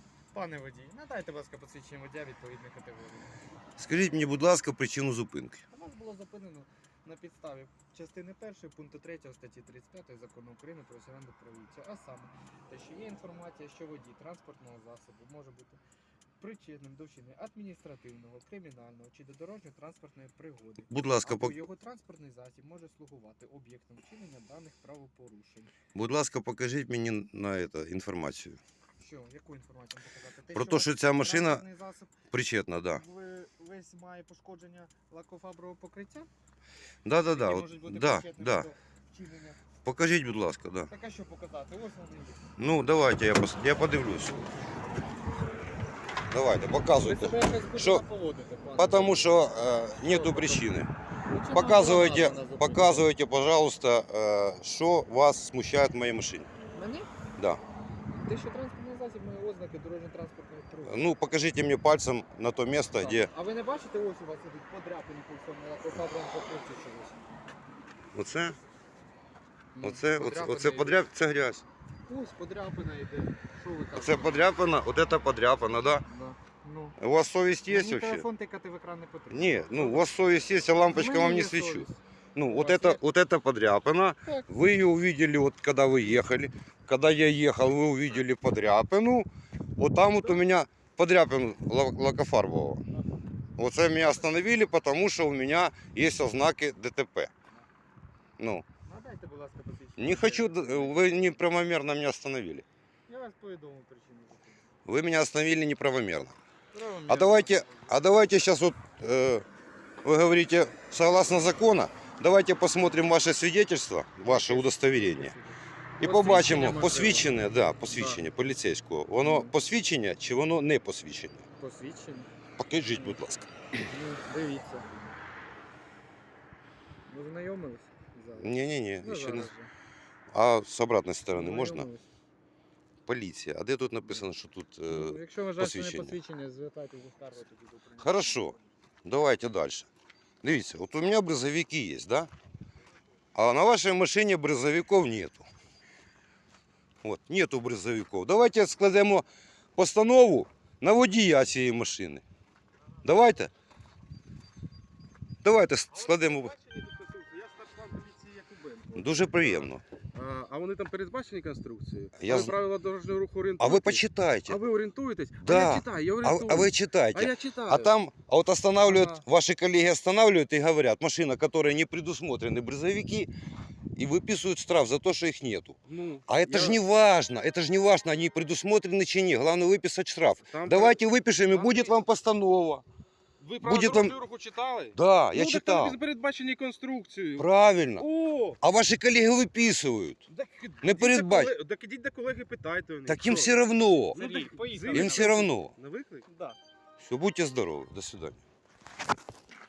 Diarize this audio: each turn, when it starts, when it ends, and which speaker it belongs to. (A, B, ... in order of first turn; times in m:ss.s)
0:00.3-0:03.3 A
0:03.8-0:05.6 B
0:05.7-0:15.8 A
0:16.4-0:25.7 A
0:20.9-0:21.6 B
0:25.9-0:28.6 B
0:29.0-0:32.2 A
0:30.5-0:31.6 B
0:32.3-0:33.0 B
0:32.9-0:36.3 A
0:37.0-0:38.7 B
0:37.3-0:39.6 A
0:39.8-0:40.9 B
0:40.9-0:42.5 A
0:42.6-0:44.4 B
0:46.3-0:48.0 B
0:46.9-0:49.3 A
0:48.8-0:50.9 B
0:50.0-0:50.7 A
0:51.2-0:53.1 A
0:51.5-0:56.5 B
0:56.7-0:57.1 A
0:58.1-1:01.1 A
1:00.8-1:03.3 B
1:03.0-1:07.3 A
1:08.1-1:08.6 B
1:09.7-1:11.0 A
1:09.8-1:11.6 B
1:12.1-1:14.4 A
1:14.0-1:16.0 B
1:16.1-1:17.0 A
1:17.0-1:18.3 B
1:17.7-1:20.0 A
1:19.3-1:32.8 B
1:20.9-1:23.0 A
1:33.6-1:37.3 B
1:38.4-1:38.6 B
1:38.9-1:41.5 A
1:40.0-1:42.6 B
1:43.1-1:44.7 A
1:44.9-1:46.4 B
1:46.7-1:48.0 A
1:47.1-1:49.4 B
1:50.0-1:55.3 B
1:54.2-1:57.3 A
1:56.0-2:01.4 B
1:57.9-1:58.2 A
1:59.2-1:59.5 A
2:01.6-2:02.3 A
2:02.6-2:03.5 B
2:02.9-2:03.2 A
2:03.8-2:05.1 A
2:07.1-2:09.7 A
2:08.4-2:09.5 B
2:10.3-2:11.9 B
2:11.3-2:12.1 A
2:13.1-2:16.2 B
2:14.9-2:18.7 A
2:18.0-2:19.9 B
2:20.4-2:22.3 B
2:23.3-2:25.5 B
2:27.0-2:32.2 B
2:33.0-2:33.5 B
2:35.4-2:36.6 B
2:35.9-2:47.9 C
2:38.9-2:39.8 B
2:42.2-2:42.6 B
2:43.6-2:44.6 B
2:45.4-2:53.3 B
2:48.9-2:49.2 A
2:53.9-3:02.8 B
2:55.9-2:56.8 C
3:00.4-3:02.0 C
3:03.4-3:07.5 C
3:03.6-3:04.2 B
3:04.9-3:06.0 B
3:07.4-3:08.1 B
3:08.0-3:08.6 C
3:08.6-3:10.2 B
3:10.3-3:13.5 C
3:10.8-3:11.5 B
3:13.1-3:14.2 B
3:14.1-3:16.3 C
3:14.1-3:15.5 A
3:14.9-3:15.7 B
3:16.3-3:16.6 A
3:17.0-3:18.4 B